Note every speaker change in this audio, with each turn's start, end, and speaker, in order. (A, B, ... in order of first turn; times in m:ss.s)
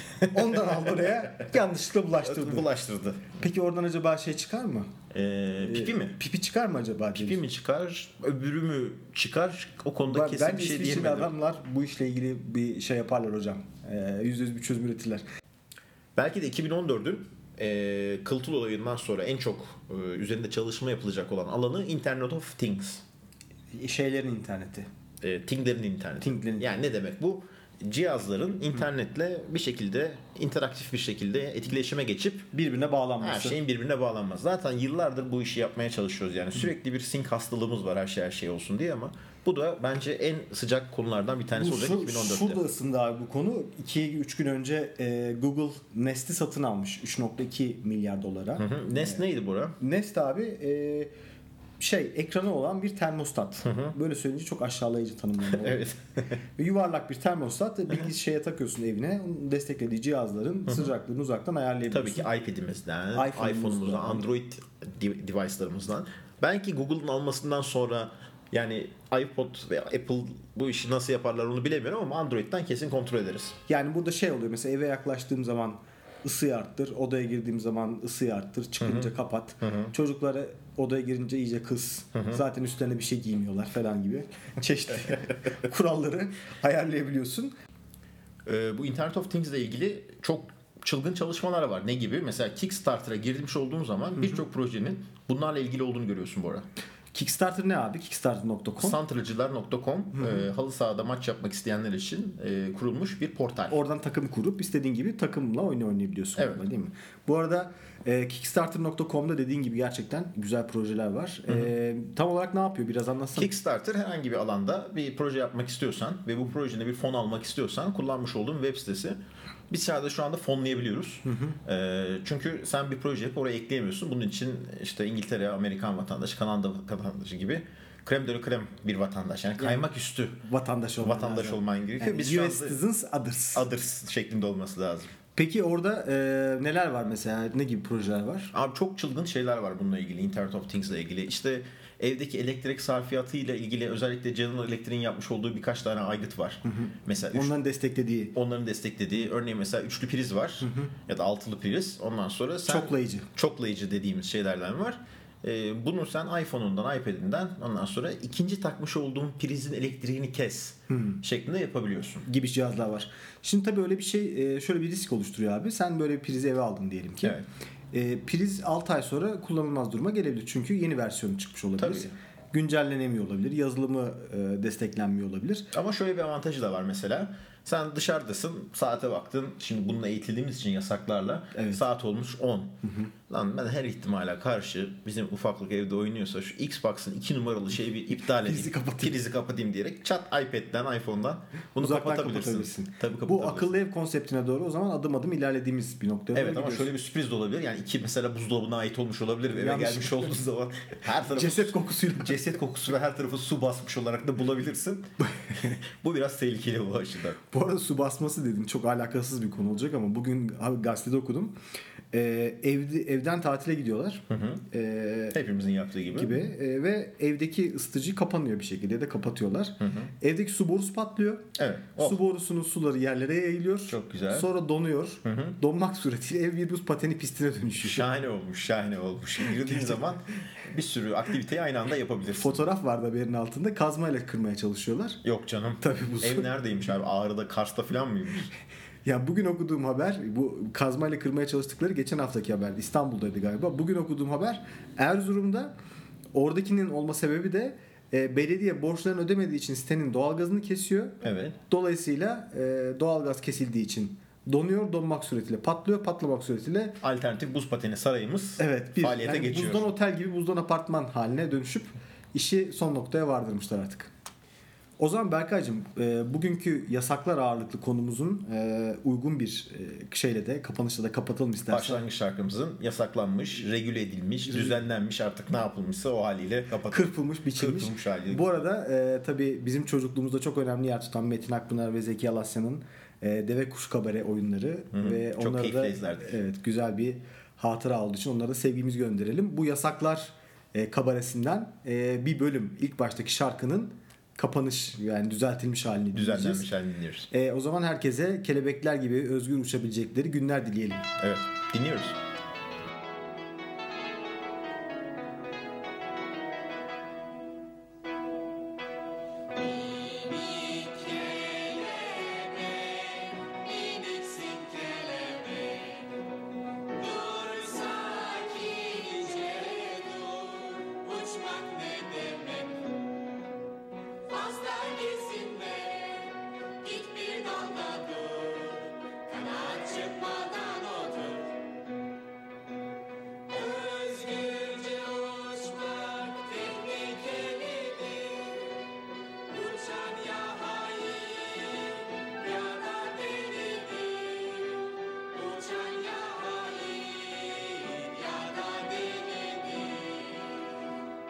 0:00.3-0:02.7 A
0:02.2-0:03.3 B
0:03.4-0:04.9 A
0:05.1-0:06.2 B
0:05.6-0:07.4 A
0:07.1-0:11.3 B
0:10.0-0:15.2 A
0:16.2-0:23.0 B
0:23.7-0:24.9 A
0:25.2-0:32.5 B
0:26.2-0:26.7 A
0:32.5-0:33.6 A
0:33.2-0:42.6 B
0:41.6-0:49.2 A
0:48.6-0:49.8 B
0:49.8-0:51.1 A
0:51.8-0:55.9 A
0:53.6-0:53.9 B
0:55.5-0:56.4 B
0:56.6-1:02.3 A
1:01.9-1:13.6 B
1:03.1-1:04.3 A
1:13.7-1:27.5 A
1:18.8-1:19.1 B
1:19.6-1:19.9 B
1:22.1-1:22.4 B
1:28.4-1:36.6 B
1:37.1-1:39.0 A
1:38.8-1:43.8 B
1:40.2-1:40.5 A
1:43.7-1:53.5 A
1:53.4-1:59.2 B
1:59.7-2:10.4 B
2:01.2-2:01.6 A
2:09.6-2:09.9 A
2:10.4-2:13.7 A
2:11.0-2:12.8 B
2:13.5-2:15.1 B
2:15.4-2:18.5 A
2:18.5-2:27.5 B
2:26.6-2:28.4 A
2:28.3-2:42.3 B
2:30.6-2:30.9 A
2:32.6-2:33.3 A
2:40.9-2:41.2 A
2:42.2-2:47.4 A
2:47.9-2:55.7 A
2:51.8-2:52.1 B
2:55.7-3:13.7 B
3:08.1-3:09.1 A
3:11.8-3:16.9 A
3:16.3-3:27.4 B
3:19.5-3:20.4 A
3:21.3-3:22.4 A
3:27.5-3:31.6 A
3:32.1-3:35.4 A
3:34.3-3:34.6 B
3:35.3-3:36.5 B
3:36.1-3:41.4 A
3:39.8-3:40.1 B
3:41.6-3:42.2 B
3:42.0-3:48.1 A
3:43.9-3:44.5 B
3:45.2-3:45.6 B
3:47.8-3:52.6 B
3:49.5-3:50.0 A
3:52.4-3:55.2 A
3:55.2-3:58.5 B
3:55.8-3:56.5 A
3:59.0-4:05.7 A
4:06.3-4:17.0 A
4:11.2-4:11.6 B
4:17.0-4:19.9 B
4:18.6-4:24.1 A
4:25.0-4:32.0 A
4:31.7-4:38.6 B
4:34.5-4:34.8 A
4:36.9-4:56.7 A
4:44.9-4:46.3 B
4:56.1-4:57.3 B
4:57.3-5:01.1 A
5:01.2-5:02.2 B
5:09.6-5:16.1 C
5:16.9-5:22.9 C
5:24.3-5:31.6 C
5:33.5-5:38.8 C
5:39.5-5:50.4 C